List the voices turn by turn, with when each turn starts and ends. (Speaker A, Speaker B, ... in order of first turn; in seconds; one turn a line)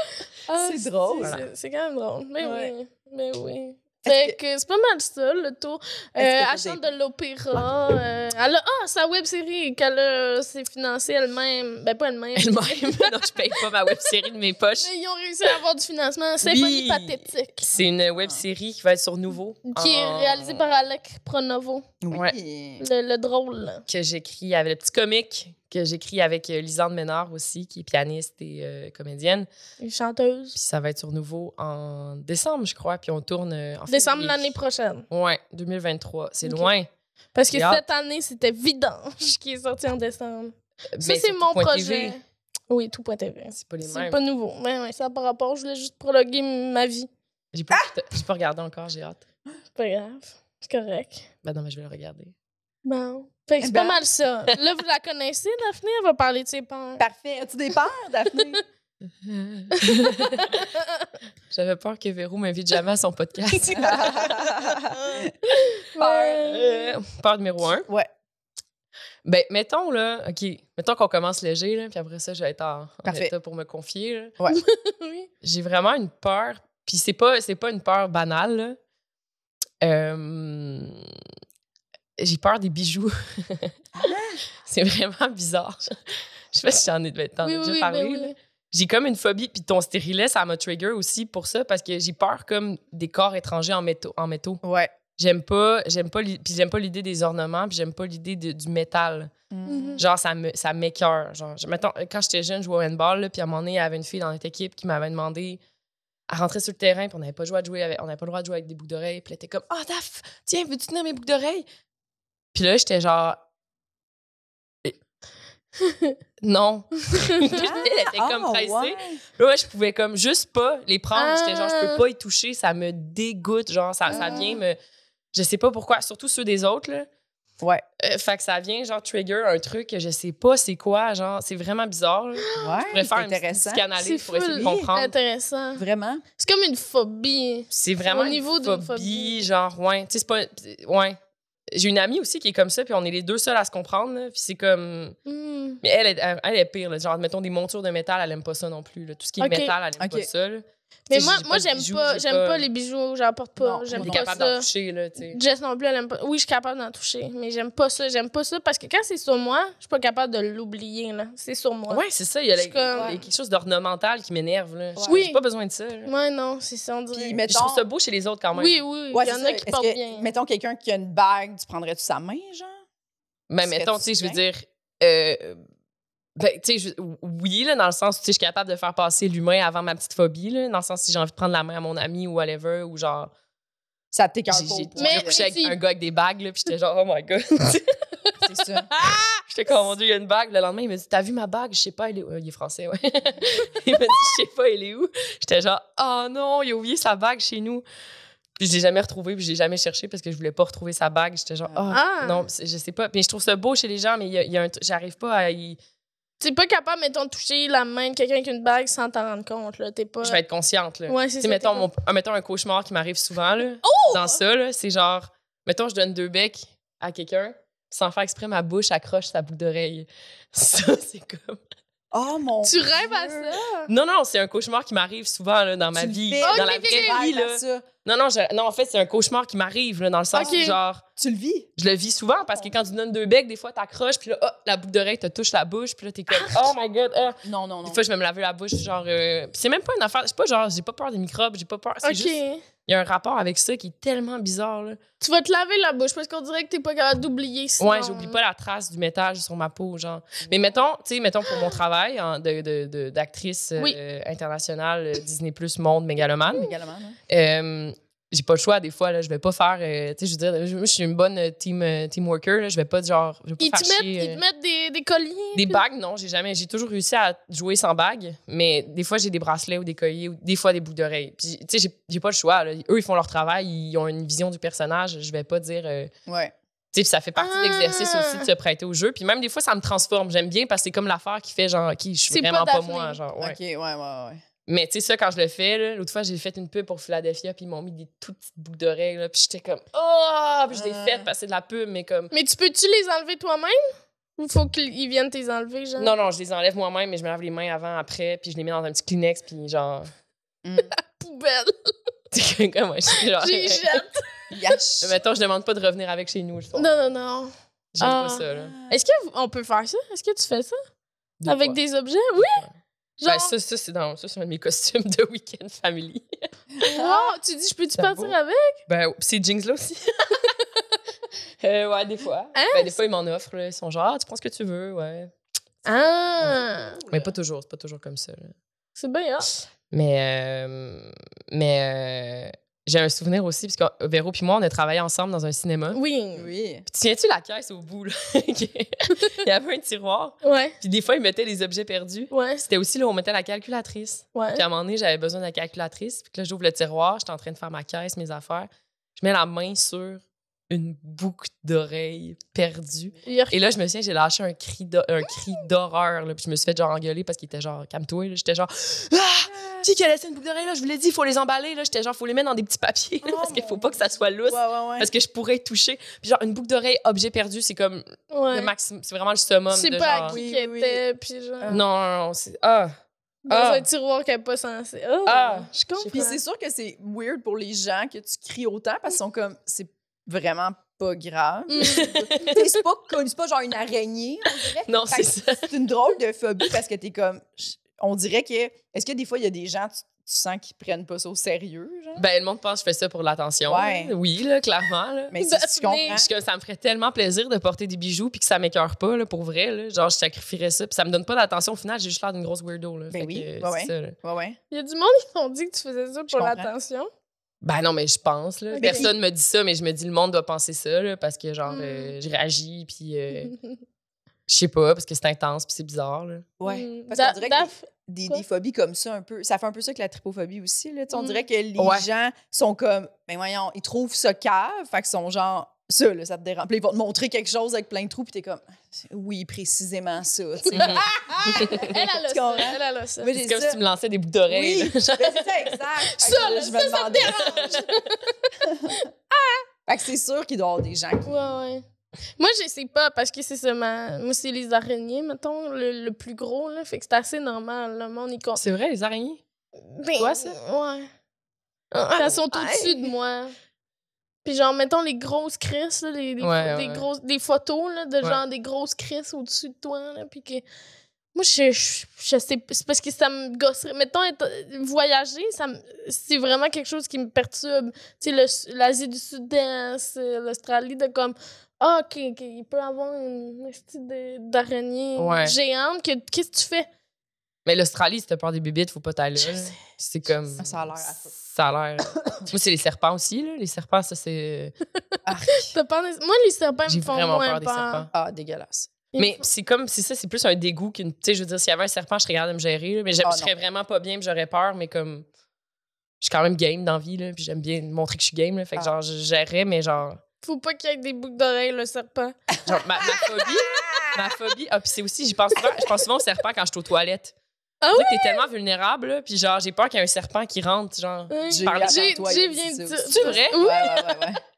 Speaker A: 0.5-13.3
Speaker B: 0.6-1.4
Speaker C: 1.2-1.5
Speaker B: 2.4-2.7
Speaker B: 4.0-4.4
Speaker B: 6.2-6.8
Speaker C: 12.4-14.9
Speaker A: 14.8-17.7
Speaker C: 16.4-20.6
Speaker B: 17.7-18.4
Speaker A: 19.7-21.9
Speaker B: 22.0-22.9
Speaker C: 22.1-22.4
Speaker A: 22.8-23.9
Speaker C: 23.9-29.5
Speaker A: 29.8-30.6
Speaker C: 30.6-34.5
Speaker A: 33.9-35.1
Speaker C: 35.1-36.9
Speaker A: 36.5-36.7
Speaker A: 37.4-47.1
Speaker C: 37.5-37.8
Speaker C: 41.0-42.2
Speaker C: 43.5-44.2
Speaker C: 47.5-49.2
Speaker A: 49.8-51.3
Speaker C: 51.4-52.3
Speaker A: 52.9-57.0
Speaker B: 53.6-54.0
Speaker B: 57.0-58.6
Speaker C: 59.2-60.6
Speaker A: 59.8-61.1
Speaker C: 61.5-64.1
Speaker A: 63.5-67.0
Speaker B: 63.8-65.3
Speaker B: 66.0-66.5
Speaker C: 66.4-67.9
Speaker C: 69.2-74.3
Speaker B: 73.1-73.3
Speaker A: 74.5-75.3
Speaker C: 75.4-78.8
Speaker C: 79.8-81.1
Speaker C: 82.2-83.7
Speaker B: 84.0-84.4
Speaker C: 84.7-86.0
Speaker C: 86.5-94.6
Speaker A: 87.4-88.3
Speaker B: 94.6-94.9
Speaker C: 95.2-99.3
Speaker B: 99.5-100.0
Speaker A: 99.7-100.0
Speaker C: 100.0-105.6
Speaker C: 106.3-111.7
Speaker C: 112.5-113.4
Speaker A: 115.8-116.2
Speaker C: 116.4-124.8
Speaker A: 117.3-117.6
Speaker B: 117.5-119.2
Speaker A: 121.2-122.0
Speaker B: 124.1-124.6
Speaker A: 124.1-124.6
Speaker C: 125.3-127.1
Speaker C: 128.0-135.1
Speaker A: 132.4-133.0
Speaker B: 132.6-133.9
Speaker A: 134.0-135.8
Speaker B: 134.5-134.9
Speaker B: 135.8-136.2
Speaker A: 136.4-139.4
Speaker C: 137.7-141.2
Speaker C: 141.7-145.2
Speaker A: 145.3-145.8
Speaker C: 145.8-152.7
Speaker A: 149.4-149.7
Speaker B: 150.0-150.3
Speaker A: 151.1-154.7
Speaker B: 153.6-154.4
Speaker C: 153.9-155.4
Speaker A: 155.2-162.0
Speaker C: 161.9-166.1
Speaker A: 162.6-163.2
Speaker B: 162.9-163.3
Speaker B: 165.0-165.2
Speaker A: 165.1-165.4
Speaker A: 166.1-167.4
Speaker B: 167.1-167.8
Speaker C: 167.5-168.8
Speaker A: 168.6-170.3
Speaker B: 169.1-172.8
Speaker C: 173.5-175.6
Speaker B: 173.6-174.4
Speaker C: 176.4-183.3
Speaker B: 184.1-185.4
Speaker C: 184.5-188.0
Speaker A: 185.0-185.8
Speaker B: 188.4-188.9
Speaker C: 189.0-197.8
Speaker C: 198.6-205.8
Speaker A: 201.9-202.5
Speaker A: 206.4-210.4
Speaker C: 210.2-221.6
Speaker A: 211.1-211.9
Speaker A: 213.8-214.4
Speaker B: 222.1-223.6
Speaker A: 222.6-223.9
Speaker C: 223.9-231.0
Speaker B: 225.9-227.9
Speaker A: 226.4-227.2
Speaker A: 230.3-230.8
Speaker B: 231.2-231.7
Speaker C: 231.8-245.0
Speaker A: 236.3-236.7
Speaker B: 237.4-238.0
Speaker A: 242.0-242.7
Speaker A: 245.2-248.4
Speaker C: 247.8-256.7
Speaker B: 256.5-257.2
Speaker C: 257.3-264.4
Speaker A: 263.6-265.8
Speaker C: 265.6-276.1
Speaker B: 276.3-276.5
Speaker C: 276.9-283.6
Speaker A: 277.4-278.5
Speaker A: 282.3-283.2
Speaker B: 283.4-284.4
Speaker C: 284.7-292.3
Speaker B: 290.7-291.3
Speaker A: 292.3-296.1
Speaker C: 296.0-300.1
Speaker B: 300.6-300.9
Speaker A: 300.9-301.9
Speaker C: 302.3-304.0
Speaker A: 303.3-304.3
Speaker B: 304.5-305.1
Speaker C: 305.0-306.9
Speaker A: 306.8-310.8
Speaker C: 307.9-308.7
Speaker B: 308.5-309.0
Speaker C: 311.4-311.8
Speaker A: 311.5-312.6
Speaker C: 312.3-312.8
Speaker A: 313.2-313.5
Speaker C: 313.3-316.3
Speaker B: 316.8-317.3
Speaker A: 316.8-318.8
Speaker C: 318.0-318.4
Speaker C: 318.9-320.5
Speaker C: 321.6-325.3
Speaker A: 322.6-323.0
Speaker A: 325.9-327.0
Speaker B: 326.5-327.3
Speaker C: 327.1-328.5
Speaker A: 329.0-329.5
Speaker C: 329.9-336.0
Speaker A: 335.9-336.5
Speaker B: 336.4-336.9
Speaker C: 336.9-370.4
Speaker A: 340.4-340.8
Speaker A: 342.3-342.6
Speaker A: 344.4-344.6
Speaker A: 353.2-353.6
Speaker B: 359.4-359.9
Speaker B: 363.2-365.1
Speaker A: 368.3-368.7
Speaker A: 369.7-371.8
Speaker B: 370.3-371.0
Speaker C: 371.7-372.9
Speaker A: 373.5-376.4
Speaker C: 373.5-373.9
Speaker C: 375.3-376.3
Speaker B: 376.1-392.2
Speaker A: 381.7-382.5
Speaker C: 381.8-382.6
Speaker C: 384.9-385.7
Speaker C: 392.2-395.4
Speaker B: 393.7-394.2
Speaker B: 395.3-396.3
Speaker A: 395.4-396.2
Speaker C: 396.1-404.1
Speaker B: 403.1-404.6
Speaker A: 404.7-407.1
Speaker B: 406.3-406.7
Speaker C: 407.6-413.5
Speaker A: 408.7-409.1
Speaker B: 408.8-409.1
Speaker A: 411.7-412.1
Speaker A: 413.4-413.8
Speaker C: 414.5-416.5
Speaker B: 416.6-433.8
Speaker A: 416.6-418.4
Speaker A: 421.1-421.4
Speaker C: 421.8-422.1
Speaker C: 430.7-431.0
Speaker C: 431.6-431.9
Speaker A: 431.6-433.3
Speaker C: 433.3-435.8
Speaker B: 434.5-437.8
Speaker A: 436.1-438.3
Speaker C: 437.3-437.8
Speaker B: 438.6-439.1
Speaker A: 439.0-439.6
Speaker B: 439.9-441.5
Speaker A: 441.2-441.8
Speaker A: 442.4-448.6
Speaker C: 448.6-449.4
Speaker A: 449.9-451.1
Speaker C: 450.2-450.6
Speaker A: 451.9-453.5
Speaker C: 452.2-453.1
Speaker A: 454.4-460.6
Speaker C: 456.4-457.0
Speaker A: 461.3-476.9
Speaker C: 475.2-475.6
Speaker C: 477.7-484.8
Speaker A: 479.4-479.7
Speaker B: 480.6-481.3
Speaker B: 482.2-482.5
Speaker B: 485.2-485.7
Speaker A: 485.5-488.1
Speaker C: 486.9-488.1
Speaker B: 488.1-488.9
Speaker A: 489.1-489.4
Speaker C: 489.2-495.2
Speaker B: 493.2-493.5
Speaker C: 496.2-500.2
Speaker A: 500.4-502.4
Speaker C: 502.7-507.4
Speaker B: 503.0-504.4
Speaker A: 507.8-508.4
Speaker C: 507.9-512.2
Speaker A: 511.3-514.2
Speaker B: 511.5-514.4
Speaker C: 513.1-513.7